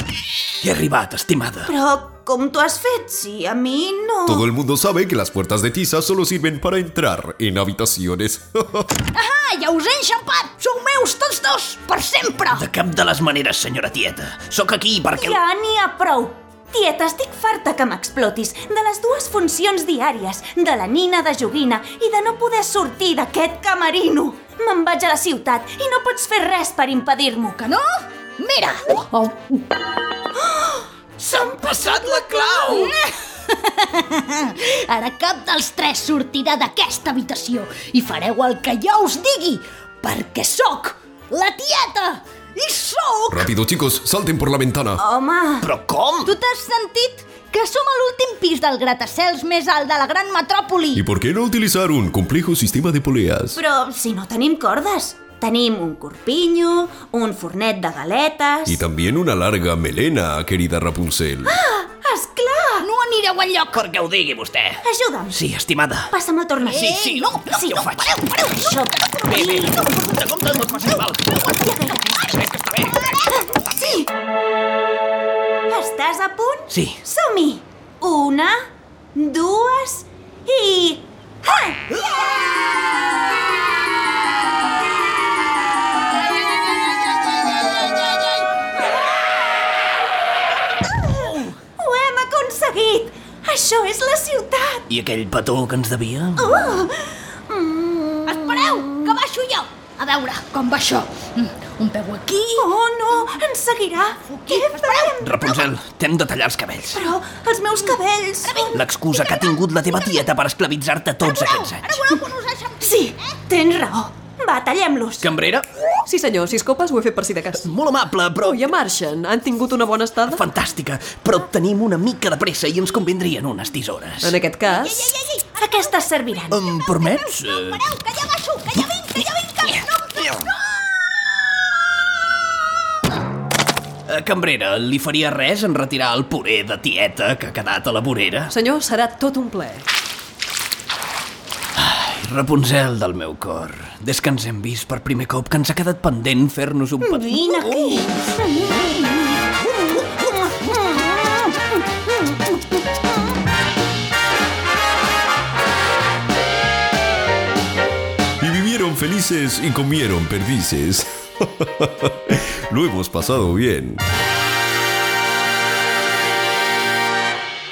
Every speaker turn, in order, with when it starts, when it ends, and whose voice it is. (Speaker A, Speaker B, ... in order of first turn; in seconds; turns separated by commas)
Speaker A: 0.6-1.7, Speaker B: 1.7-4.4, Speaker C: 4.3-8.9, Speaker D: 9.1-12.7, Speaker A: 12.5-15.4, Speaker B: 15.1-27.6, Speaker D: 27.6-29.6, Speaker B: 30.4-32.8, Speaker A: 31.2-32.9, Speaker D: 32.7-43.5, Speaker C: 43.3-45.0, Speaker B: 45.0-45.7, Speaker A: 45.6-46.3, Speaker D: 46.2-51.0, Speaker C: 50.9-53.6, Speaker B: 53.5-58.8, Speaker C: 58.7-61.6, Speaker B: 61.5-62.9, Speaker D: 62.8-63.8, Speaker A: 63.7-66.1, Speaker B: 64.8-65.4, Speaker B: 66.1-66.9, Speaker D: 66.6-67.5, Speaker A: 66.7-71.5, Speaker B: 67.5-70.0, Speaker B: 71.1-72.3, Speaker A: 72.3-73.2, Speaker B: 73.3-74.1, Speaker B: 75.7-78.6, Speaker A: 76.7-77.0, Speaker B: 79.2-81.8, Speaker A: 86.5-88.5, Speaker A: 91.1-91.5, Speaker B: 91.8-94.9, Speaker A: 94.9-96.7, Speaker B: 96.4-99.2, Speaker D: 98.3-103.3, Speaker B: 102.5-105.7, Speaker D: 104.2-105.2, Speaker A: 105.2-107.1, Speaker B: 106.9-108.7, Speaker D: 107.9-108.8, Speaker A: 108.7-112.1, Speaker D: 111.2-113.4, Speaker B: 112.8-115.3, Speaker A: 115.2-115.7, Speaker E: 116.1-117.6, Speaker A: 117.5-118.6, Speaker E: 118.4-120.4, Speaker A: 120.3-124.4, Speaker E: 124.2-125.1, Speaker D: 124.6-126.1, Speaker B: 125.6-126.6, Speaker A: 126.5-127.8, Speaker D: 126.6-130.8, Speaker A: 129.6-130.5, Speaker A: 134.1-138.5, Speaker E: 138.5-139.8, Speaker A: 141.8-148.1, Speaker B: 147.0-153.0, Speaker C: 158.4-164.0